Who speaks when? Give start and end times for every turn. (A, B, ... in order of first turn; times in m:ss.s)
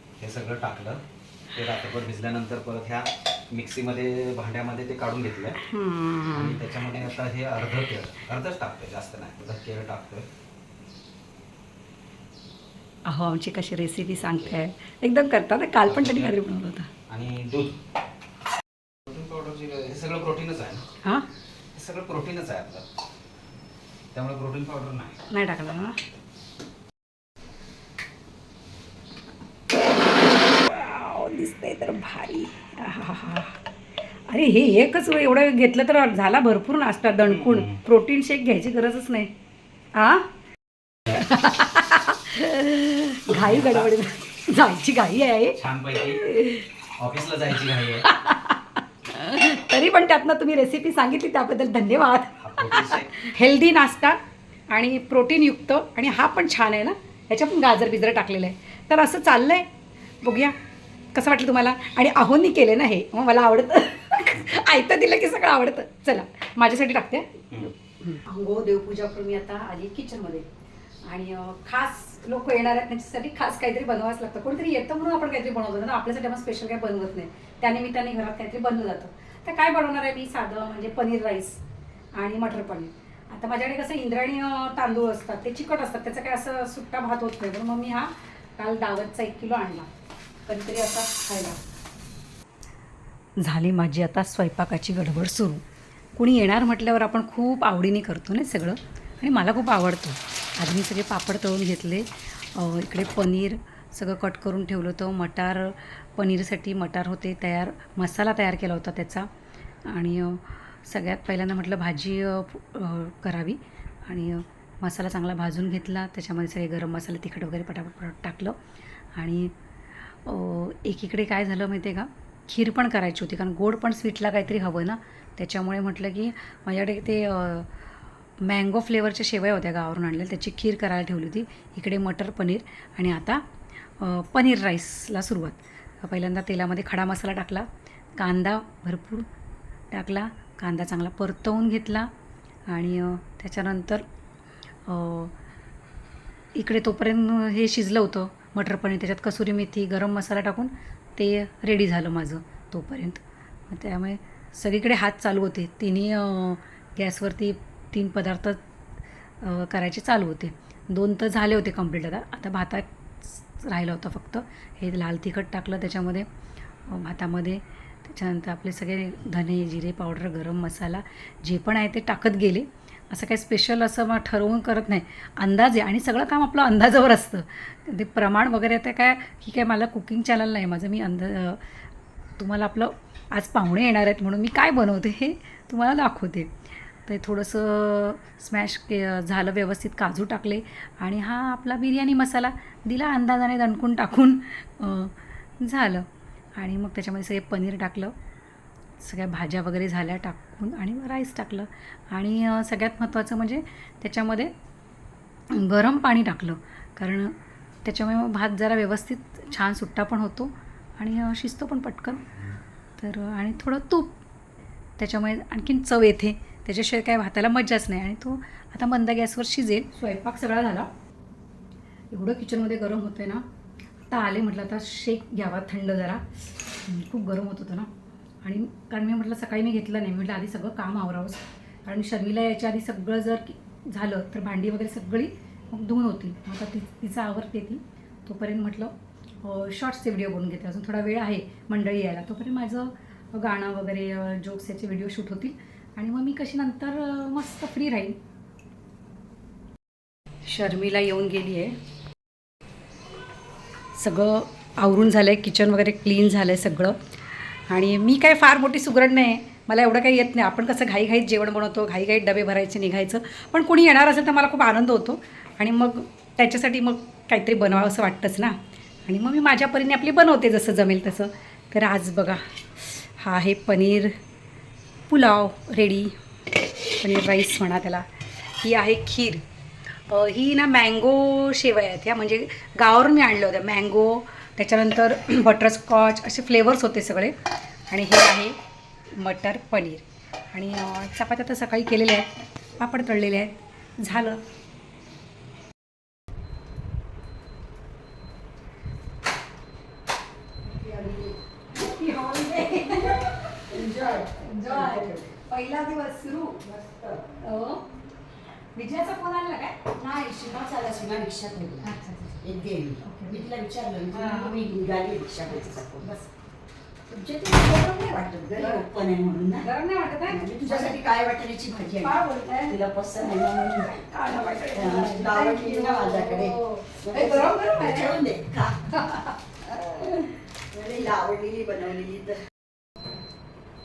0:00.2-0:05.6 A
0:05.6-0:06.6 B
0:06.3-0:10.3 A
0:13.0-0:16.9 B
0:15.8-0:16.4 A
0:17.1-0:17.8 A
0:19.1-0:20.8 A
0:21.7-0:22.8 A
0:24.1-0:25.2 A
0:25.3-0:26.0 B
0:29.9-0:33.6 B
0:34.3-0:39.3 B
0:37.2-0:37.8 A
0:39.9-0:40.3 B
0:41.1-0:46.7 B
0:43.3-0:43.9 A
0:45.6-0:46.2 A
0:47.0-0:48.1 A
0:48.0-0:54.2 B
0:52.4-0:53.2 A
0:54.7-0:59.7 B
1:00.2-1:00.5 B
1:01.1-1:10.4 B
1:11.0-1:21.6 B
1:22.2-1:29.9 B
1:30.4-1:31.6 B
1:33.4-1:35.6 B
1:36.2-1:49.3 B
1:49.8-1:58.6 B
1:59.2-1:59.5 B
2:00.1-2:07.7 B
2:08.4-2:13.4 B
2:14.0-2:19.3 B
2:19.9-2:22.1 B
2:22.7-2:24.0 B
2:24.9-2:25.3 B
2:26.5-2:38.6 B
2:39.4-2:46.3 B
2:46.9-3:01.6 B
3:02.4-3:06.5 B
3:07.0-3:16.0 B
3:16.6-3:18.1 B
3:19.0-3:24.5 B
3:25.5-3:32.2 B
3:33.0-3:34.2 B
3:35.0-3:40.9 B
3:42.1-3:43.4 B
3:44.1-3:46.2 B
3:46.8-3:47.9 B
3:48.4-4:08.2 B
4:10.5-4:11.8 B
4:14.0-4:17.0 B
4:17.7-4:34.1 B
4:35.1-4:36.1 B
4:37.0-4:39.4 B
4:40.1-4:47.3 B
4:47.9-4:48.6 B
4:49.1-4:54.4 B
5:00.7-5:01.4 C
5:01.7-5:06.6 B
5:03.7-5:05.3 C
5:06.6-5:07.2 C
5:07.4-5:07.8 B
5:08.7-5:09.8 B
5:09.9-5:11.9 C
5:11.8-5:13.4 B
5:12.4-5:16.1 C
5:14.1-5:14.7 B
5:17.1-5:19.7 C
5:18.6-5:18.8 B
5:19.6-5:21.0 B
5:20.2-5:24.0 C
5:21.9-5:22.8 B
5:23.7-5:28.2 B
5:24.7-5:29.0 C
5:28.9-5:30.2 B
5:30.7-5:32.4 C